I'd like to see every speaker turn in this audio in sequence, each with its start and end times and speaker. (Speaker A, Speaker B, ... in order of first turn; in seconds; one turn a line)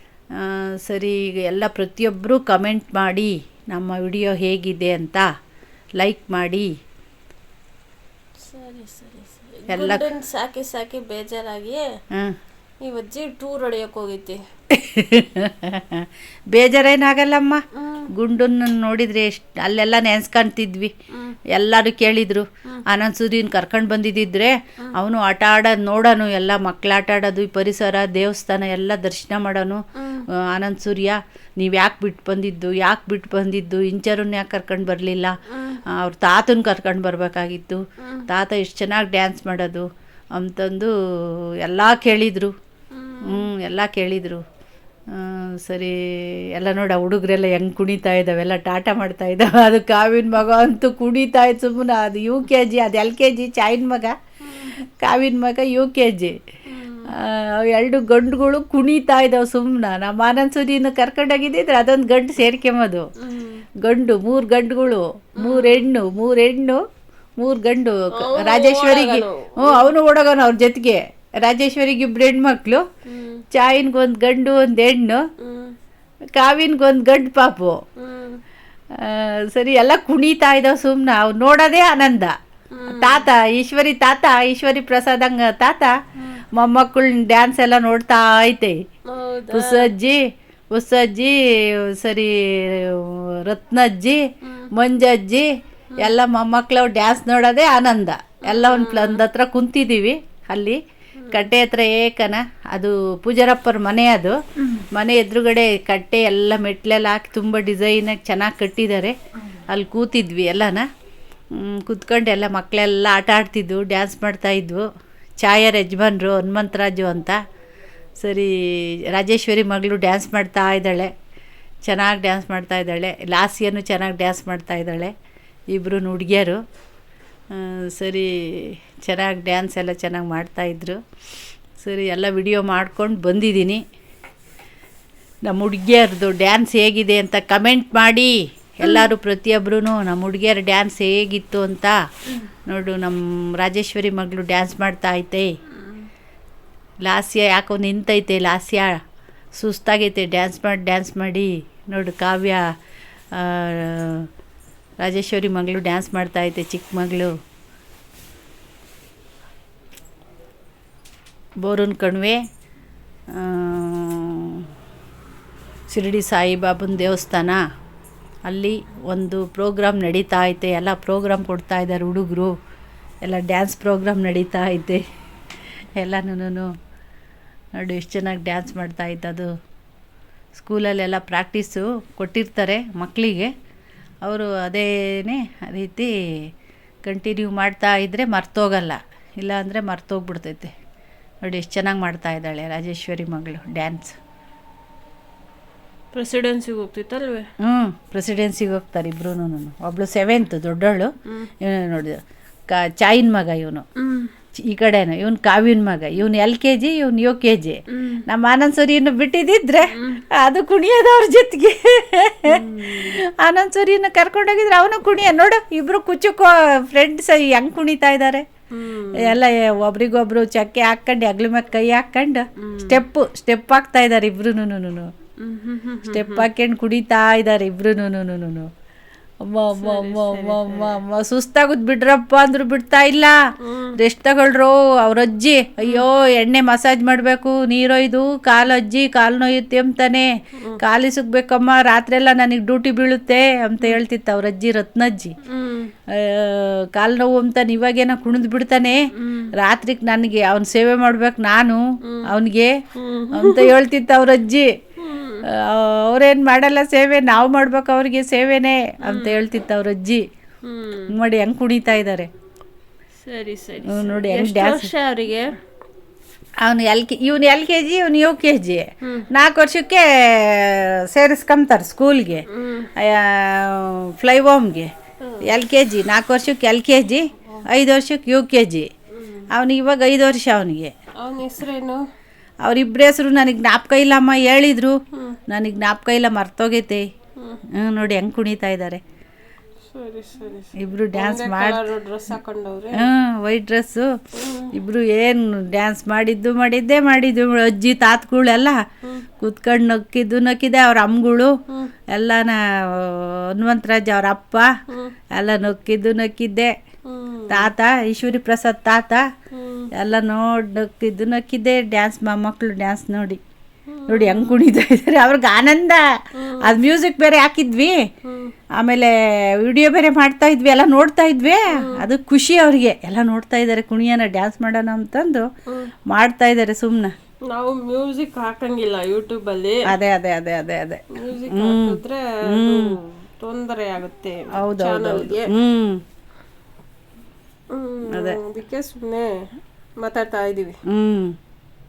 Speaker A: 0.4-5.3
Speaker A: 6.0-6.7
Speaker B: 8.4-11.9
Speaker A: 9.7-10.1
Speaker B: 12.8-14.4
Speaker A: 14.7-20.9
Speaker B: 17.8-18.1
Speaker A: 21.5-35.4
Speaker B: 30.0-30.3
Speaker B: 35.5-35.8
Speaker A: 35.9-42.5
Speaker B: 38.0-38.3
Speaker B: 42.9-43.5
Speaker A: 43.2-44.4
Speaker A: 45.1-56.4
Speaker B: 54.5-54.7
Speaker B: 56.7-57.1
Speaker A: 57.1-63.1
Speaker B: 63.2-63.7
Speaker A: 63.8-66.8
Speaker B: 65.4-65.9
Speaker A: 67.4-72.8
Speaker B: 68.1-69.9
Speaker B: 73.1-73.4
Speaker A: 73.5-75.2
Speaker B: 75.4-75.8
Speaker A: 76.4-77.8
Speaker B: 78.0-78.4
Speaker A: 78.9-82.3
Speaker B: 82.7-83.3
Speaker A: 82.9-85.9
Speaker B: 86.2-86.4
Speaker A: 86.5-88.8
Speaker B: 89.1-89.9
Speaker A: 89.5-90.2
Speaker A: 90.7-94.2
Speaker B: 94.4-94.7
Speaker A: 94.7-100.8
Speaker B: 98.5-99.3
Speaker B: 101.2-101.5
Speaker A: 101.3-110.9
Speaker A: 111.5-114.9
Speaker A: 115.4-117.4
Speaker A: 118.2-121.1
Speaker A: 121.8-125.1
Speaker A: 125.7-126.6
Speaker A: 127.5-131.0
Speaker A: 131.8-133.8
Speaker A: 135.5-141.9
Speaker B: 138.8-139.1
Speaker A: 142.7-145.5
Speaker B: 145.8-146.1
Speaker A: 147.0-149.0
Speaker A: 149.6-152.7
Speaker A: 153.3-154.3
Speaker A: 155.0-157.3
Speaker A: 161.6-162.4
Speaker A: 163.3-164.7
Speaker A: 165.9-167.6
Speaker A: 168.5-172.5
Speaker A: 173.2-175.0
Speaker A: 176.0-176.7
Speaker A: 177.8-179.5
Speaker A: 180.6-183.5
Speaker A: 184.2-186.5
Speaker A: 187.0-190.7
Speaker A: 191.4-194.2
Speaker B: 196.1-197.5
Speaker A: 197.6-203.8
Speaker B: 204.0-204.3
Speaker A: 204.6-218.5
Speaker B: 207.9-208.2
Speaker B: 209.9-210.2
Speaker B: 212.4-213.2
Speaker B: 218.7-219.4
Speaker A: 219.2-225.1
Speaker B: 222.6-223.0
Speaker B: 225.4-226.5
Speaker A: 226.1-228.7
Speaker A: 229.4-233.3
Speaker B: 229.8-231.0
Speaker B: 233.6-234.0
Speaker A: 234.0-240.3
Speaker A: 240.8-245.3
Speaker B: 245.4-245.9
Speaker A: 246.1-249.0
Speaker B: 249.2-249.5
Speaker A: 249.6-252.7
Speaker B: 252.0-252.3
Speaker B: 252.9-253.8
Speaker A: 253.3-254.7
Speaker B: 255.0-255.4
Speaker A: 255.5-260.3
Speaker B: 259.0-259.4
Speaker B: 260.6-261.1
Speaker A: 261.1-262.3
Speaker B: 263.2-265.6
Speaker A: 263.9-264.9
Speaker A: 266.6-274.9
Speaker B: 269.0-269.3
Speaker B: 272.5-272.9
Speaker B: 275.2-275.6
Speaker A: 275.4-278.9
Speaker B: 279.1-279.5
Speaker A: 279.5-280.9
Speaker B: 281.2-282.0
Speaker A: 282.6-287.1
Speaker B: 285.1-285.4
Speaker B: 287.4-287.6
Speaker A: 287.7-289.0
Speaker B: 289.9-293.1
Speaker A: 290.8-291.9
Speaker A: 292.9-294.1
Speaker B: 294.3-294.7
Speaker A: 294.7-298.8
Speaker A: 299.4-301.5
Speaker A: 302.1-304.7
Speaker B: 304.9-305.1
Speaker A: 305.4-306.7
Speaker B: 307.1-307.7
Speaker A: 307.5-309.3
Speaker B: 309.5-309.9
Speaker A: 309.9-313.4
Speaker B: 313.9-314.7
Speaker A: 314.1-316.0
Speaker B: 316.4-316.8
Speaker A: 316.6-317.9
Speaker B: 318.2-318.6
Speaker A: 318.8-325.5
Speaker B: 321.8-322.1
Speaker A: 326.1-327.1
Speaker B: 327.5-329.9
Speaker A: 329.9-332.0
Speaker B: 331.1-335.5
Speaker A: 332.5-332.9
Speaker A: 334.5-336.0
Speaker B: 337.7-339.3
Speaker A: 338.1-338.4
Speaker B: 340.0-340.8
Speaker A: 340.9-341.4